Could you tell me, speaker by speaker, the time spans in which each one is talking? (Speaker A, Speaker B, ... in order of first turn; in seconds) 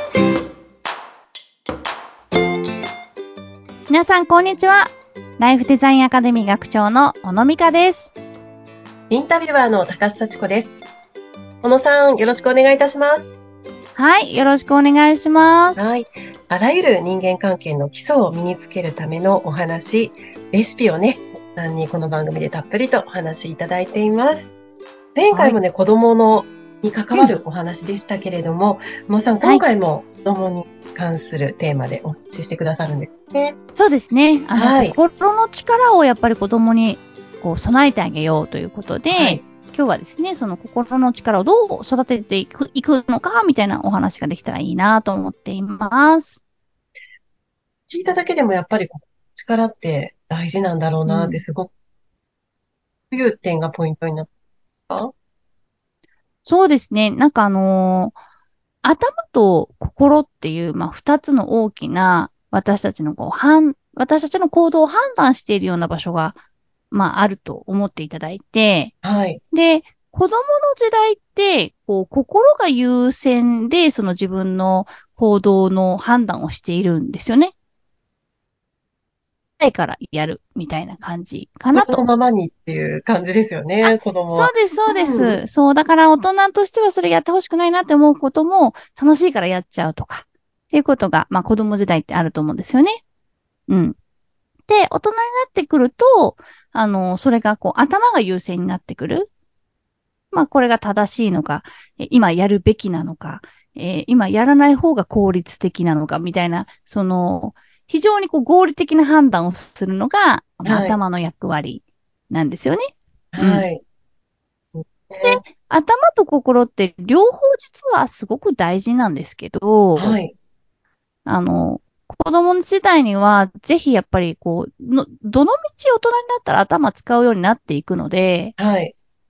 Speaker A: 3.9-8.1, 13.9-15.9, 25.3-25.6, 33.8-46.4, 51.1-51.4, 56.5-58.1, 58.8-66.4, 66.9-68.9, 69.5-77.5, 79.6-82.0, 83.8-93.0, 93.7-94.0, 94.7-99.3, 100.3-112.8, 113.4-113.7, 115.2-120.2, 121.2-128.5
Speaker B: 9.1-10.7, 11.6-13.3, 15.8-24.5, 25.1-33.5, 34.5-35.0, 39.1-39.4, 47.9-51.7, 53.1-54.3, 69.0-69.4, 81.7-85.4, 110.6-111.0, 113.3-113.8, 114.7-115.4, 120.0-120.3, 128.6-128.9